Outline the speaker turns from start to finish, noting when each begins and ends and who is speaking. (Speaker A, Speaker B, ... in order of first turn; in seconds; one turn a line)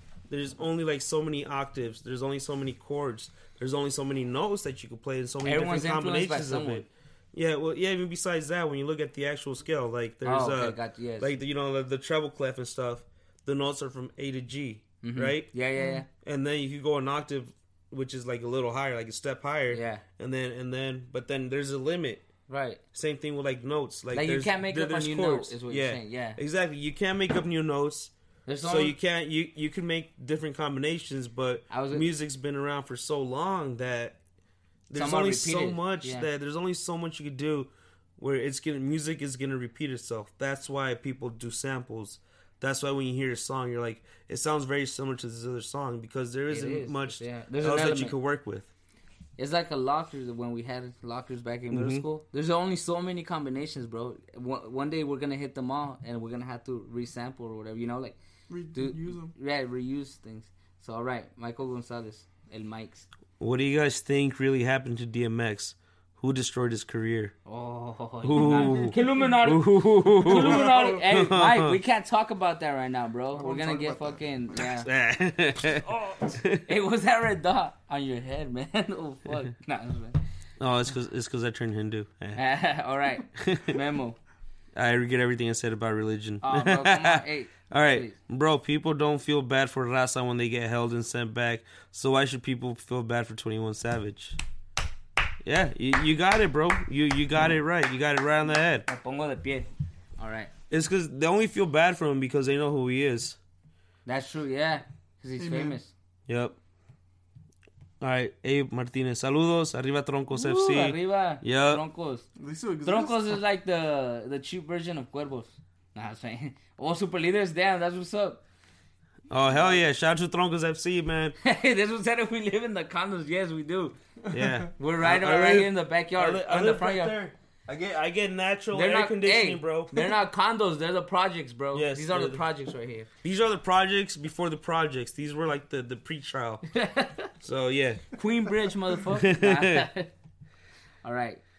Speaker A: 0.3-15.5
Speaker B: 5.4-6.8
Speaker B: 10.2-11.3
Speaker B: 15.0-16.1
Speaker C: 15.7-16.0
Speaker A: 16.2-22.2
Speaker B: 19.7-20.0
Speaker B: 22.5-22.8
Speaker A: 22.9-34.2
Speaker B: 24.1-26.4
Speaker B: 28.5-28.9
Speaker B: 31.7-32.0
Speaker A: 34.9-48.7
Speaker B: 34.9-36.3
Speaker B: 46.5-48.1
Speaker B: 49.4-58.2
Speaker A: 51.7-52.0
Speaker C: 58.5-59.3
Speaker B: 58.7-63.0
Speaker A: 63.4-67.3
Speaker B: 67.5-74.9
Speaker A: 68.2-71.8
Speaker C: 68.4-69.1
Speaker C: 70.2-71.0
Speaker C: 73.3-74.2
Speaker A: 74.6-76.6
Speaker B: 75.9-80.2
Speaker A: 80.6-82.4
Speaker B: 82.3-84.2
Speaker A: 83.4-83.8
Speaker A: 84.7-94.4
Speaker B: 86.4-88.1
Speaker A: 95.4-98.9
Speaker B: 98.9-99.7
Speaker B: 100.2-100.5
Speaker A: 100.7-103.4
Speaker B: 104.0-105.9
Speaker C: 105.4-105.8
Speaker A: 106.3-106.5
Speaker A: 108.0-111.8
Speaker B: 110.3-112.3
Speaker C: 112.3-113.4
Speaker B: 112.8-118.4
Speaker A: 119.3-121.3
Speaker B: 121.4-124.0
Speaker A: 124.3-130.1
Speaker B: 124.8-127.2
Speaker B: 128.7-133.1
Speaker A: 131.7-132.4
Speaker A: 133.2-136.7
Speaker B: 136.7-137.3
Speaker A: 137.4-138.2
Speaker B: 138.1-140.1
Speaker A: 139.2-139.8
Speaker B: 141.0-141.4